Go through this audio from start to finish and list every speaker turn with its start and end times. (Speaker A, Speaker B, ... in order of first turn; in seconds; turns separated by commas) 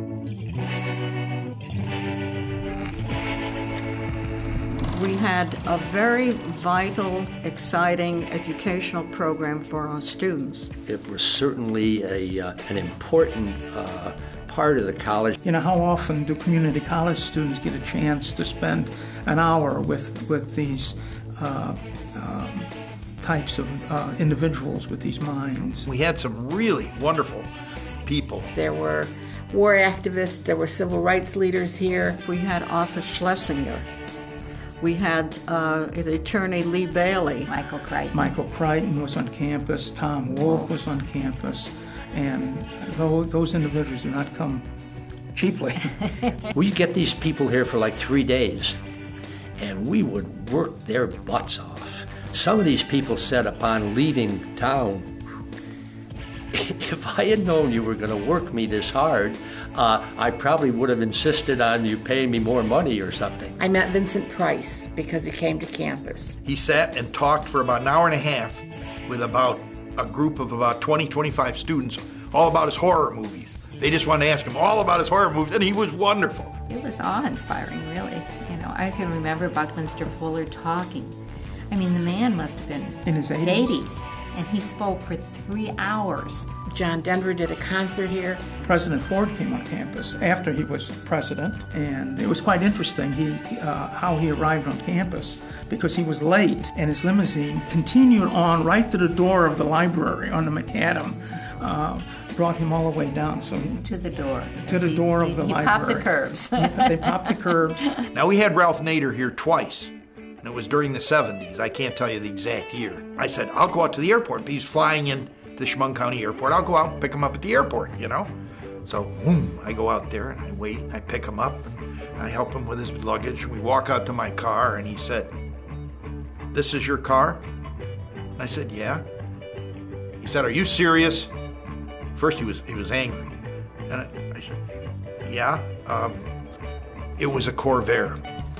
Speaker A: 4.9-10.7, Speaker B: 10.8-15.4, Speaker C: 15.4-25.9, Speaker D: 25.9-27.5, Speaker D: 28.0-28.5, Speaker E: 28.5-32.2, Speaker A: 32.2-33.9, Speaker A: 34.8-37.5, Speaker F: 37.5-38.3, Speaker C: 38.1-44.6, Speaker C: 45.3-46.0, Speaker B: 46.5-48.8, Speaker B: 49.6-55.1, Speaker B: 56.5-63.6, Speaker E: 63.6-66.4, Speaker D: 66.4-76.5, Speaker F: 76.7-81.2, Speaker F: 81.7-86.5, Speaker C: 83.0-83.8, Speaker E: 86.7-88.4, Speaker C: 88.6-103.9, Speaker F: 103.8-108.0, Speaker C: 104.6-107.8, Speaker D: 108.1-118.3, Speaker D: 118.8-125.3, Speaker D: 126.5-127.4, Speaker D: 128.4-129.0, Speaker D: 130.2-131.3, Speaker D: 132.1-133.3, Speaker D: 133.9-134.6, Speaker D: 135.2-136.3, Speaker D: 137.2-138.2